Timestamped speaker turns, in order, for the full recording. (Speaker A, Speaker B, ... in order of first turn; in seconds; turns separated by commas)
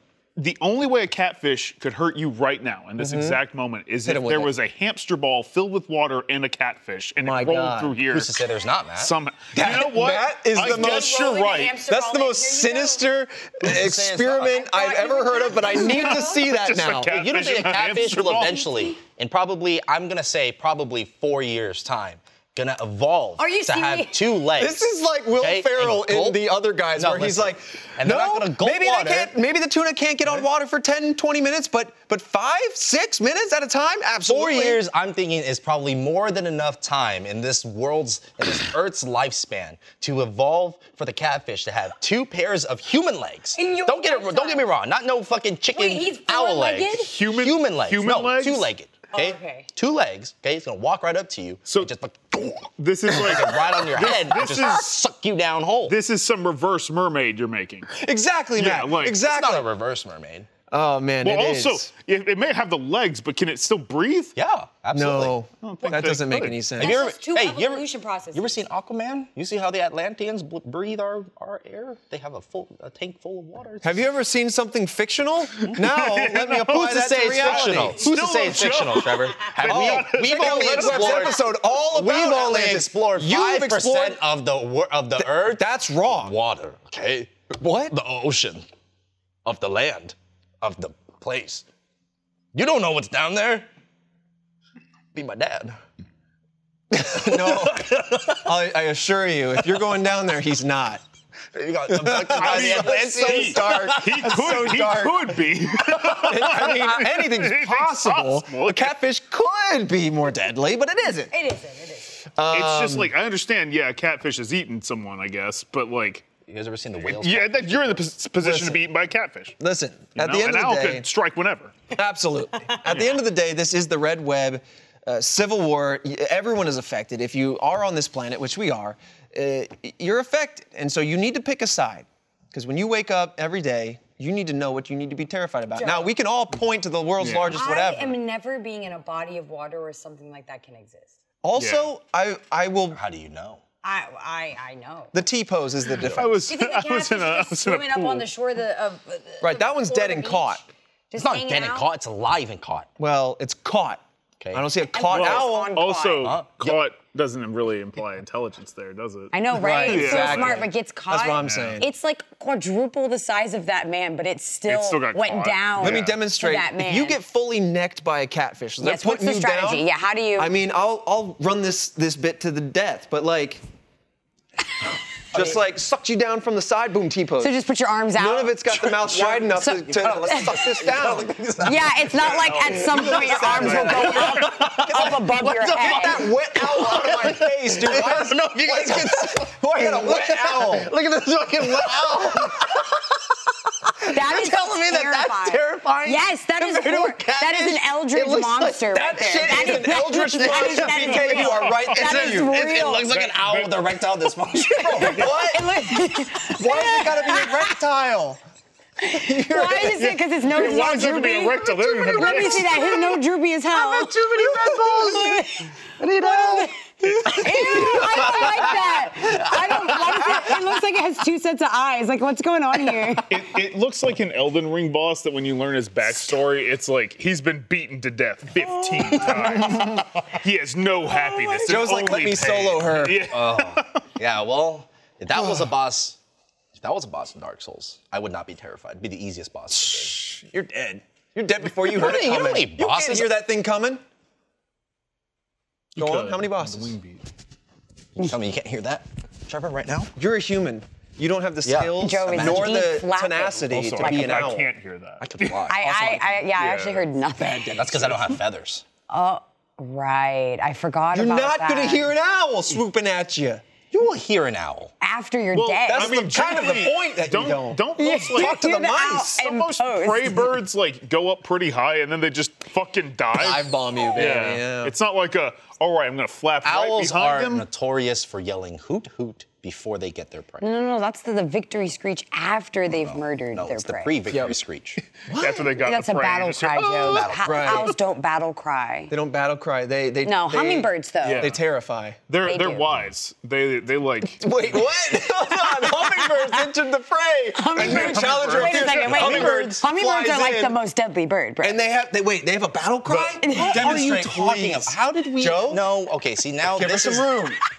Speaker A: 0.4-8.4, Speaker B: 3.0-3.4, Speaker B: 4.0-4.5, Speaker B: 7.2-8.0, Speaker C: 8.1-9.1, Speaker A: 8.9-11.8, Speaker B: 9.5-11.1, Speaker D: 10.6-13.0, Speaker B: 11.9-17.1, Speaker C: 13.6-14.6, Speaker D: 14.5-16.4, Speaker A: 16.2-18.6, Speaker C: 17.1-29.3, Speaker D: 23.4-24.2, Speaker B: 24.6-34.8, Speaker C: 34.3-55.9, Speaker D: 43.5-44.7, Speaker D: 45.7-47.1, Speaker A: 46.9-48.7, Speaker D: 49.1-49.7, Speaker A: 51.7-51.9, Speaker A: 52.8-54.9, Speaker A: 55.9-57.9, Speaker B: 57.9-59.7, Speaker A: 58.6-59.2, Speaker C: 59.1-60.5, Speaker B: 60.7-61.9, Speaker A: 61.2-64.3, Speaker C: 64.3-65.3, Speaker B: 64.9-67.0, Speaker A: 65.6-66.6, Speaker D: 66.8-68.6, Speaker C: 66.8-74.0, Speaker B: 73.8-78.1, Speaker A: 75.6-81.4, Speaker C: 76.7-87.3, Speaker B: 79.6-84.2, Speaker B: 85.2-86.3, Speaker B: 87.6-87.9, Speaker C: 87.9-88.7, Speaker C: 89.4-91.6, Speaker C: 92.5-93.7, Speaker C: 95.1-95.8, Speaker B: 96.9-101.0, Speaker C: 97.0-98.5, Speaker C: 101.5-104.7, Speaker B: 101.9-111.3, Speaker A: 102.3-108.9, Speaker D: 111.3-112.2, Speaker B: 112.3-113.1, Speaker A: 112.5-116.3, Speaker C: 116.5-118.0, Speaker A: 117.0-119.5, Speaker B: 118.4-118.8, Speaker B: 119.6-121.1, Speaker A: 120.1-121.7, Speaker B: 121.9-138.2, Speaker A: 122.9-123.2, Speaker D: 135.8-136.1, Speaker A: 137.2-137.6, Speaker D: 137.5-141.2, Speaker B: 141.4-143.0, Speaker A: 141.6-141.9, Speaker C: 142.9-143.6, Speaker D: 143.8-145.1, Speaker B: 145.1-146.5, Speaker A: 146.0-148.3, Speaker D: 146.4-151.9, Speaker B: 149.4-150.6, Speaker C: 151.2-152.9, Speaker B: 153.0-154.0, Speaker C: 154.4-154.6, Speaker B: 154.5-155.7, Speaker D: 154.9-156.3, Speaker A: 155.1-160.7, Speaker C: 156.2-156.8, Speaker D: 159.3-167.2, Speaker B: 159.5-161.9, Speaker A: 161.4-161.8, Speaker A: 164.7-166.2, Speaker B: 165.8-169.8, Speaker D: 168.8-170.5, Speaker B: 170.4-173.6, Speaker B: 175.3-177.5, Speaker D: 177.4-179.0, Speaker B: 178.2-181.3, Speaker C: 178.8-193.1, Speaker D: 179.5-180.8, Speaker D: 181.6-186.3, Speaker A: 182.3-184.3, Speaker B: 182.7-190.9, Speaker B: 191.6-192.8, Speaker C: 193.9-201.4, Speaker D: 194.1-203.1, Speaker B: 198.9-202.6, Speaker A: 201.1-202.1, Speaker C: 202.0-205.6, Speaker A: 203.1-203.8, Speaker B: 204.7-205.9, Speaker D: 204.8-207.7, Speaker B: 206.5-208.4, Speaker D: 209.0-223.5, Speaker B: 209.0-210.0, Speaker A: 210.0-213.0, Speaker B: 212.2-212.5, Speaker B: 213.7-220.5, Speaker A: 223.3-234.0, Speaker B: 229.6-230.0, Speaker D: 231.1-231.7, Speaker B: 231.6-233.3, Speaker C: 233.3-236.2, Speaker B: 235.3-235.7, Speaker C: 236.8-240.2, Speaker B: 239.7-244.0, Speaker C: 241.8-243.3, Speaker B: 245.9-246.9, Speaker A: 245.9-247.2, Speaker C: 248.2-250.1, Speaker B: 250.2-254.7, Speaker C: 251.6-252.8, Speaker D: 252.0-254.5, Speaker A: 253.7-257.1, Speaker B: 255.2-255.8, Speaker C: 255.2-255.9, Speaker D: 255.7-257.8, Speaker B: 257.4-258.4, Speaker C: 257.7-258.8, Speaker D: 259.1-262.1, Speaker B: 261.1-263.6, Speaker C: 263.9-264.9, Speaker D: 265.0-266.2, Speaker A: 265.5-268.6, Speaker B: 265.9-269.4, Speaker D: 268.0-270.5, Speaker A: 269.1-277.7, Speaker B: 273.3-274.9, Speaker C: 276.6-280.6, Speaker D: 280.6-284.1, Speaker C: 282.9-285.0, Speaker B: 284.3-284.6, Speaker B: 285.3-285.7, Speaker A: 285.3-287.2, Speaker D: 285.8-289.1, Speaker C: 287.1-287.9, Speaker B: 287.4-287.9, Speaker B: 289.1-292.2, Speaker D: 290.2-291.5, Speaker A: 291.2-291.6, Speaker A: 292.3-294.4, Speaker D: 292.4-292.9, Speaker B: 294.3-300.8, Speaker D: 295.4-296.6, Speaker D: 297.5-301.8, Speaker A: 297.8-299.7, Speaker C: 299.1-299.6, Speaker B: 301.6-305.9, Speaker C: 303.1-307.4, Speaker D: 303.4-304.0, Speaker B: 306.7-307.6